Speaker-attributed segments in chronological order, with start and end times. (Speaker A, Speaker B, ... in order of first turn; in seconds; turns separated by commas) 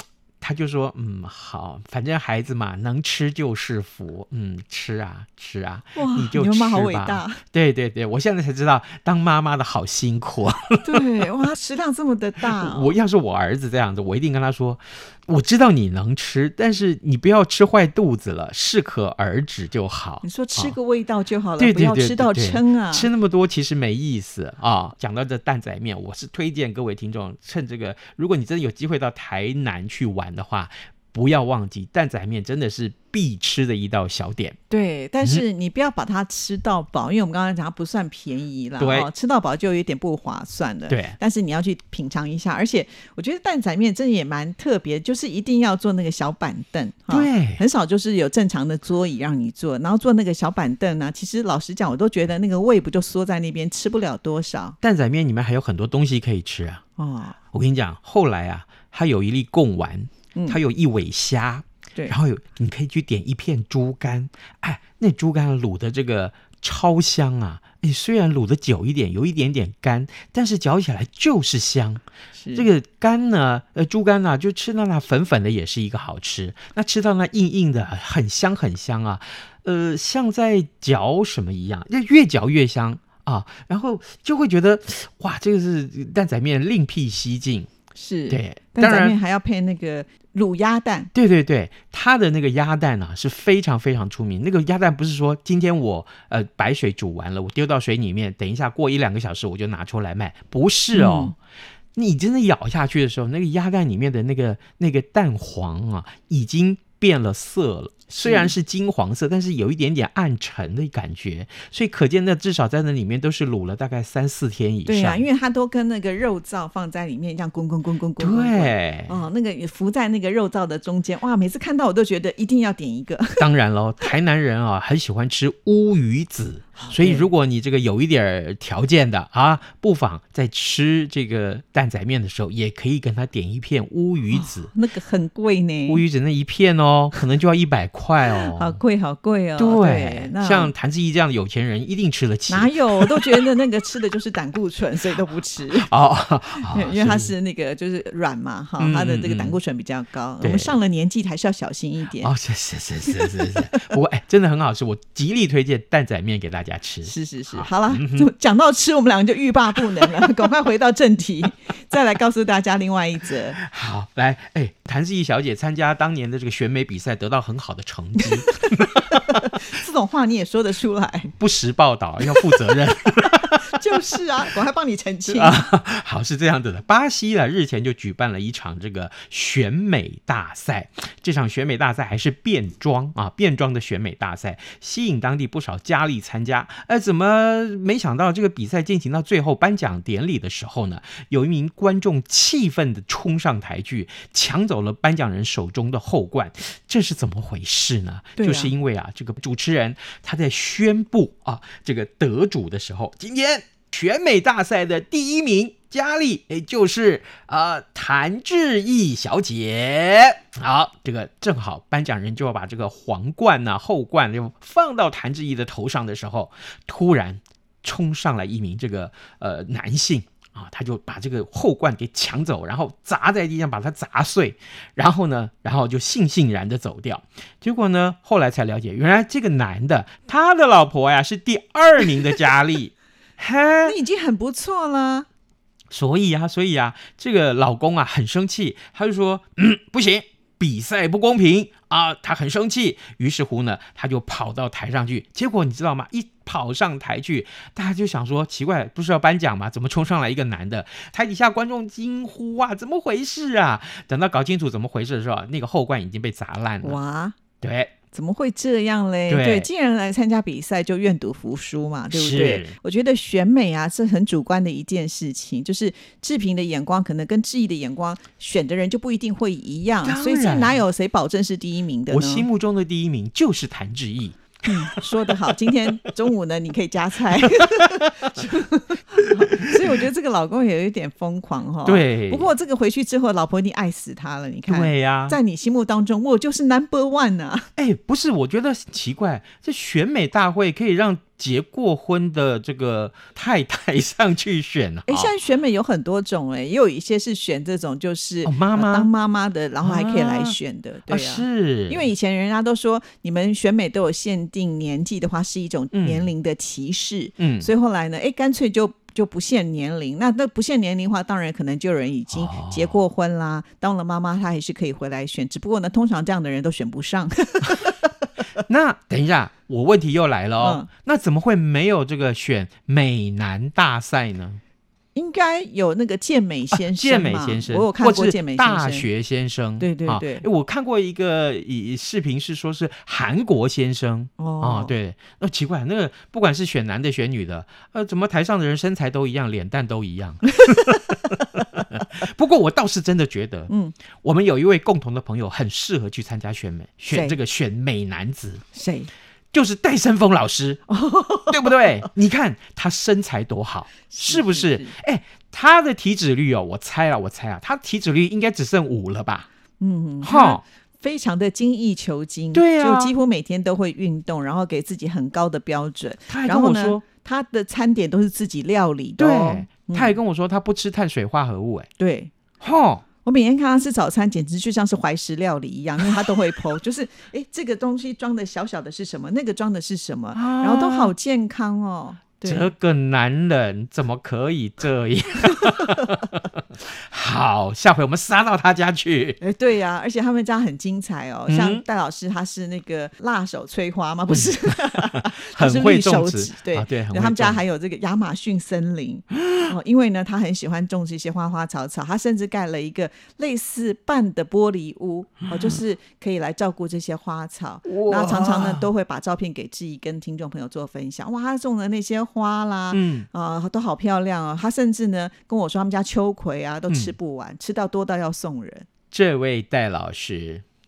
Speaker A: 0.4-11.2, Speaker B: 5.9-7.4, Speaker B: 10.8-12.9, Speaker A: 12.4-20.8, Speaker B: 20.2-23.1, Speaker A: 21.6-34.6, Speaker B: 34.7-54.8, Speaker A: 38.8-39.1, Speaker A: 40.9-41.2, Speaker A: 47.1-47.6, Speaker A: 54.8-56.8, Speaker B: 57.0-57.4, Speaker A: 57.5-72.0, Speaker B: 60.3-60.6, Speaker B: 72.3-72.7, Speaker A: 72.5-87.7, Speaker B: 87.9-91.1, Speaker A: 88.3-89.2, Speaker A: 91.1-101.3, Speaker B: 100.9-101.3, Speaker A: 102.0-115.3, Speaker B: 108.2-108.5, Speaker B: 114.9-123.5, Speaker A: 118.2-119.2, Speaker A: 123.4-134.7, Speaker B: 126.8-127.3, Speaker B: 134.3-136.0, Speaker A: 135.9-138.8, Speaker B: 138.6-140.7, Speaker A: 139.6-143.5, Speaker B: 142.5-145.9, Speaker A: 145.7-147.3, Speaker B: 146.7-152.3, Speaker A: 148.8-149.6, Speaker A: 150.4-150.8, Speaker A: 152.2-158.3, Speaker B: 153.2-153.6, Speaker B: 157.0-163.6, Speaker A: 163.6-169.5, Speaker B: 169.5-171.3, Speaker A: 171.4-173.8, Speaker B: 173.6-175.7, Speaker A: 175.3-234.0, Speaker B: 198.4-198.7, Speaker B: 233.8-235.3, Speaker A: 235.9-257.0, Speaker B: 256.8-257.4, Speaker A: 257.6-257.9, Speaker B: 258.1-272.5, Speaker A: 259.3-259.7, Speaker A: 262.1-262.8, Speaker A: 270.0-270.8, Speaker A: 272.1-275.0, Speaker B: 274.6-287.7, Speaker A: 277.4-278.4, Speaker A: 279.2-279.7, Speaker A: 281.8-282.5, Speaker A: 284.7-285.4, Speaker A: 287.8-295.3, Speaker B: 295.1-318.0, Speaker A: 298.4-299.1, Speaker A: 299.8-300.6, Speaker A: 301.1-302.1, Speaker A: 305.9-306.3, Speaker A: 307.4-307.7, Speaker A: 312.3-313.0, Speaker A: 318.6-324.6, Speaker B: 320.6-320.9, Speaker B: 325.1-329.1, Speaker A: 326.7-343.7, Speaker B: 329.8-330.4, Speaker B: 334.4-334.9, Speaker B: 343.7-343.9, Speaker A: 344.2-348.6, Speaker B: 347.1-347.4, Speaker B: 348.7-349.1, Speaker A: 349.5-350.9, Speaker B: 350.9-351.8, Speaker A: 351.5-359.5, Speaker B: 354.1-354.9, Speaker B: 359.8-370.1, Speaker A: 360.2-360.6, Speaker A: 362.5-363.1, Speaker A: 366.3-367.0, Speaker A: 369.2-371.9, Speaker B: 372.0-372.3, Speaker A: 372.6-373.0, Speaker B: 373.2-382.7, Speaker A: 380.3-381.1, Speaker A: 382.4-389.4, Speaker B: 389.4-418.9, Speaker A: 391.5-391.8, Speaker A: 394.3-397.6, Speaker A: 407.9-408.9, Speaker A: 412.9-413.3, Speaker A: 416.9-417.1, Speaker A: 419.1-420.6